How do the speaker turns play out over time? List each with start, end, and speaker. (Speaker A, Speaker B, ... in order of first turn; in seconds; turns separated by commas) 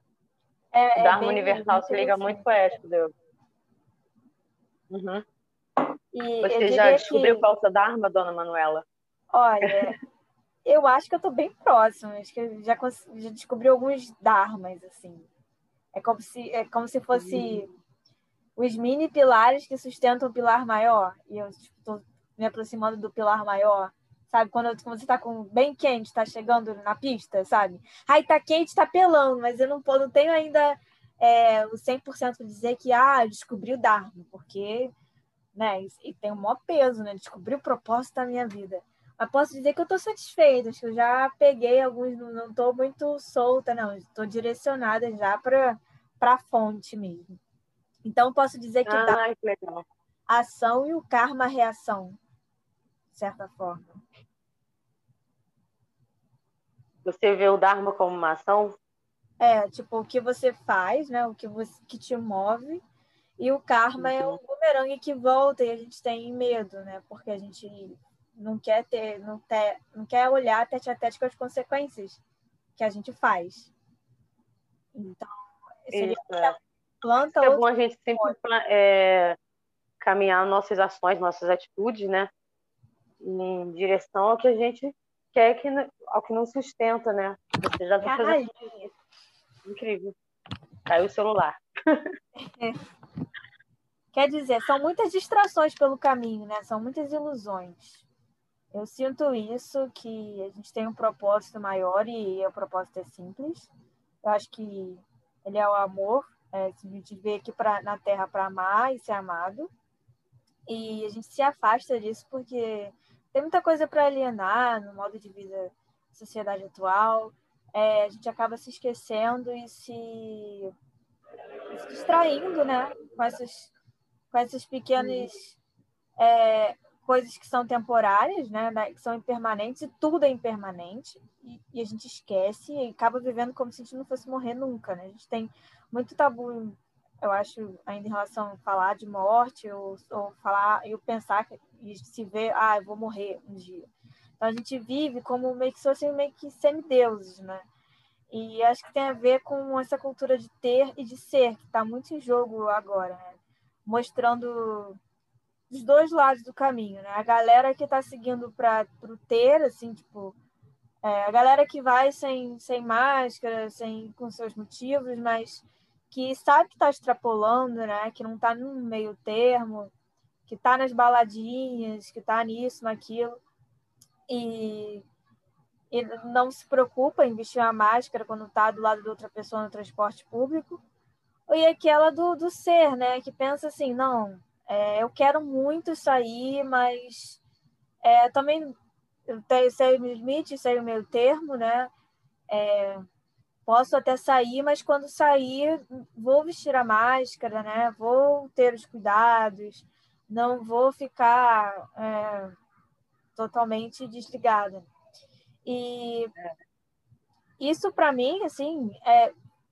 Speaker A: 0.7-2.5, Speaker B: 1.0-3.1, Speaker B: 4.9-5.2, Speaker A: 6.1-7.4, Speaker B: 6.4-8.8, Speaker A: 9.3-10.0, Speaker A: 10.6-15.3, Speaker A: 15.9-17.7, Speaker B: 17.1-17.7, Speaker A: 18.6-34.9, Speaker A: 35.5-47.4, Speaker A: 48.0-49.2, Speaker B: 48.9-49.9, Speaker A: 50.3-52.2, Speaker A: 53.1-54.0, Speaker B: 57.0-58.7, Speaker A: 59.4-62.8, Speaker A: 63.4-72.2, Speaker B: 64.0-64.4, Speaker A: 72.8-73.7, Speaker A: 74.9-77.6, Speaker B: 75.9-76.5, Speaker B: 77.3-79.4, Speaker B: 80.0-82.3, Speaker B: 83.2-88.5, Speaker A: 88.0-88.9, Speaker B: 89.6-90.1, Speaker B: 90.9-91.6, Speaker A: 94.1-98.0, Speaker A: 98.7-103.7, Speaker A: 104.2-109.7, Speaker A: 110.7-120.7, Speaker A: 121.7-123.7, Speaker A: 124.3-125.6, Speaker B: 125.0-125.3, Speaker A: 126.2-143.9, Speaker A: 144.4-147.7, Speaker A: 148.3-155.0, Speaker A: 155.7-160.3, Speaker A: 161.0-169.9, Speaker A: 170.5-173.4, Speaker A: 174.3-175.0, Speaker A: 175.9-180.8, Speaker A: 181.5-187.4, Speaker A: 188.0-188.8, Speaker A: 189.3-191.9, Speaker A: 192.5-193.0, Speaker A: 193.7-202.6, Speaker A: 203.3-204.9, Speaker A: 205.6-206.3, Speaker A: 207.6-209.3